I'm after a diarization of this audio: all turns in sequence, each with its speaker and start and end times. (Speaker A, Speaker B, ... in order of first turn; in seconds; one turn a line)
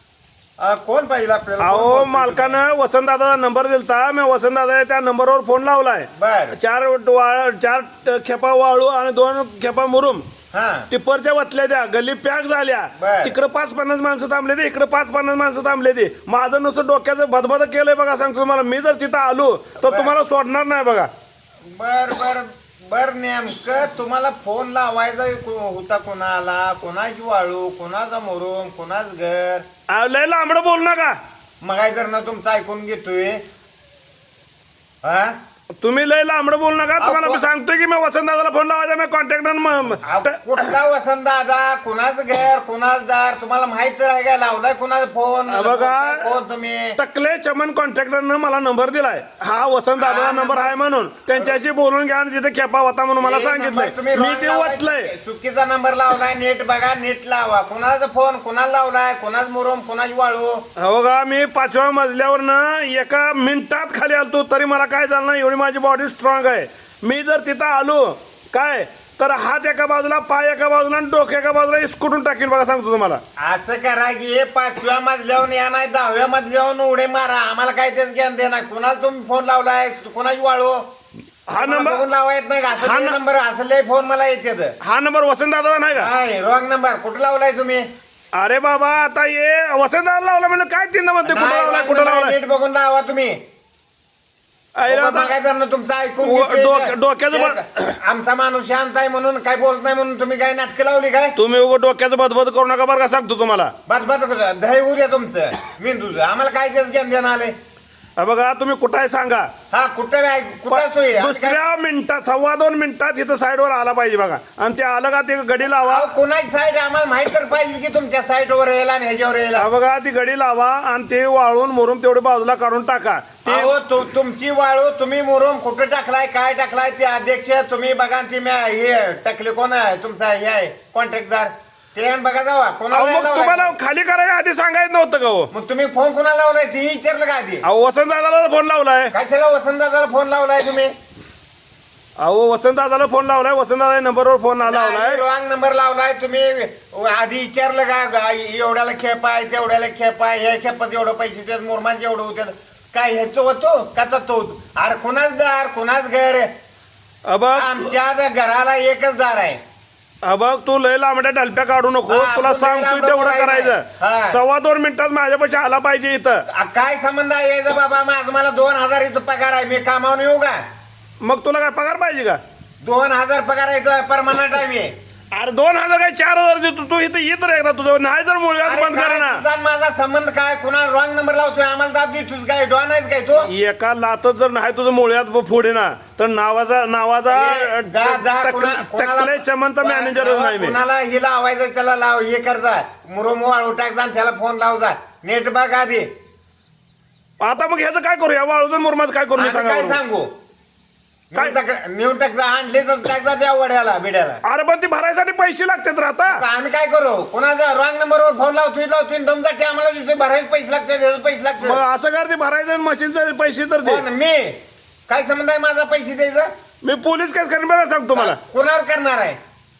Speaker A: 0.6-2.5
Speaker B: 1.6-10.2
Speaker A: 6.2-6.5
Speaker A: 10.5-10.9
Speaker B: 10.9-21.1
Speaker A: 13.0-13.3
Speaker A: 19.8-20.1
Speaker A: 21.6-29.6
Speaker B: 29.9-31.2
Speaker A: 31.6-33.4
Speaker A: 35.0-35.3
Speaker B: 35.8-40.7
Speaker A: 37.0-37.4
Speaker A: 40.0-47.0
Speaker B: 45.5-46.3
Speaker B: 47.0-55.1
Speaker A: 50.0-50.8
Speaker A: 53.2-60.6
Speaker B: 60.8-73.2
Speaker A: 73.4-80.8
Speaker B: 81.5-82.0
Speaker A: 81.6-84.7
Speaker B: 82.8-83.2
Speaker B: 84.8-86.1
Speaker A: 85.9-87.9
Speaker B: 88.3-92.3
Speaker A: 91.2-93.4
Speaker B: 94.8-95.3
Speaker A: 94.9-101.3
Speaker B: 96.2-97.9
Speaker B: 101.3-103.7
Speaker A: 103.9-107.5
Speaker B: 108.2-109.5
Speaker A: 109.7-111.6
Speaker B: 110.7-116.1
Speaker A: 115.8-119.7
Speaker B: 119.5-123.7
Speaker A: 123.4-133.7
Speaker B: 132.9-135.5
Speaker A: 135.5-137.6
Speaker B: 137.6-139.1
Speaker A: 139.1-140.9
Speaker B: 142.2-145.2
Speaker A: 144.6-156.5
Speaker B: 157.3-157.9
Speaker A: 157.5-159.6
Speaker B: 160.2-166.4
Speaker A: 162.1-164.4
Speaker A: 166.5-170.6
Speaker B: 171.2-172.4
Speaker A: 172.8-174.9
Speaker B: 175.3-179.4
Speaker A: 178.6-183.5
Speaker B: 183.4-190.8
Speaker A: 187.3-196.1
Speaker B: 197.4-200.0
Speaker A: 199.4-200.3
Speaker A: 201.3-204.4
Speaker B: 204.4-206.4
Speaker A: 206.2-211.8
Speaker B: 211.6-214.0
Speaker A: 213.8-216.5
Speaker B: 216.8-218.4
Speaker A: 218.1-219.4